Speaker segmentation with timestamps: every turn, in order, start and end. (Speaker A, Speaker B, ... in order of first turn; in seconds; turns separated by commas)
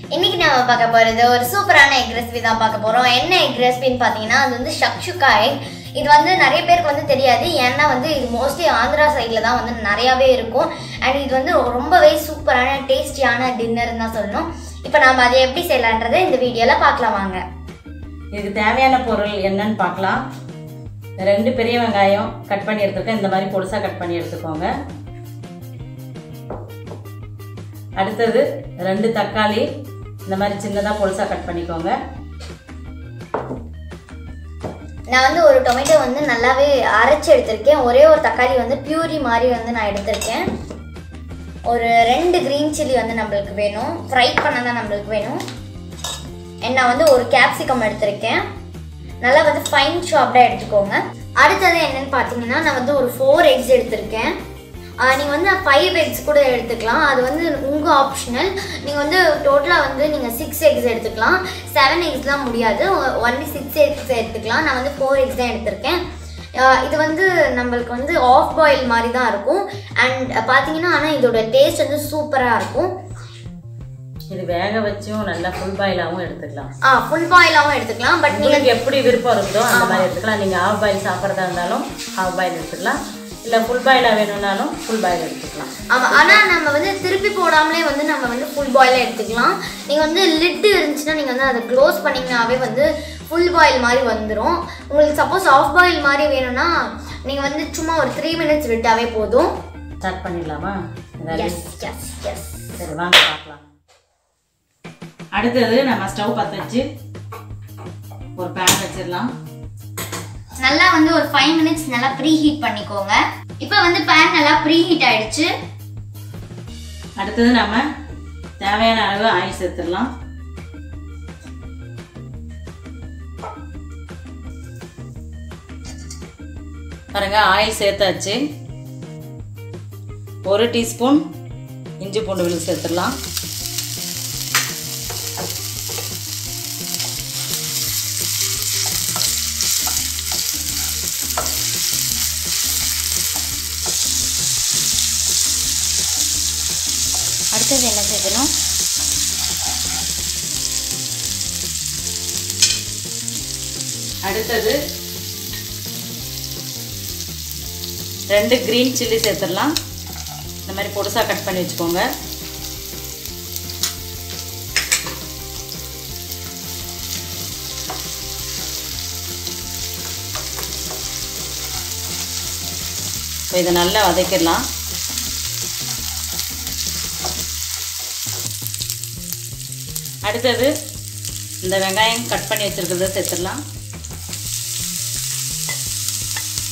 Speaker A: 0.1-17.4, Speaker B: 18.3-20.2, Speaker B: 21.2-24.7, Speaker B: 28.0-29.7, Speaker B: 30.3-31.9, Speaker A: 35.1-40.4, Speaker A: 41.7-45.4, Speaker A: 46.6-48.4, Speaker A: 49.2-54.3, Speaker A: 55.0-66.0, Speaker A: 66.6-72.9, Speaker B: 74.3-76.7, Speaker A: 76.8-78.7, Speaker B: 78.3-86.4, Speaker A: 79.7-80.1, Speaker A: 85.9-96.7, Speaker A: 97.2-99.5, Speaker B: 100.0-101.6, Speaker A: 101.3-102.5, Speaker B: 102.8-103.6, Speaker B: 105.3-106.8, Speaker B: 108.4-109.3, Speaker A: 110.6-115.5, Speaker B: 117.2-117.8, Speaker B: 118.6-120.1, Speaker B: 127.1-128.4, Speaker B: 130.5-131.2, Speaker B: 132.0-133.1, Speaker A: 147.5-148.5, Speaker B: 154.2-154.8, Speaker B: 158.3-159.7, Speaker B: 160.7-162.1, Speaker B: 173.5-174.6, Speaker B: 180.2-180.7, Speaker B: 181.6-183.6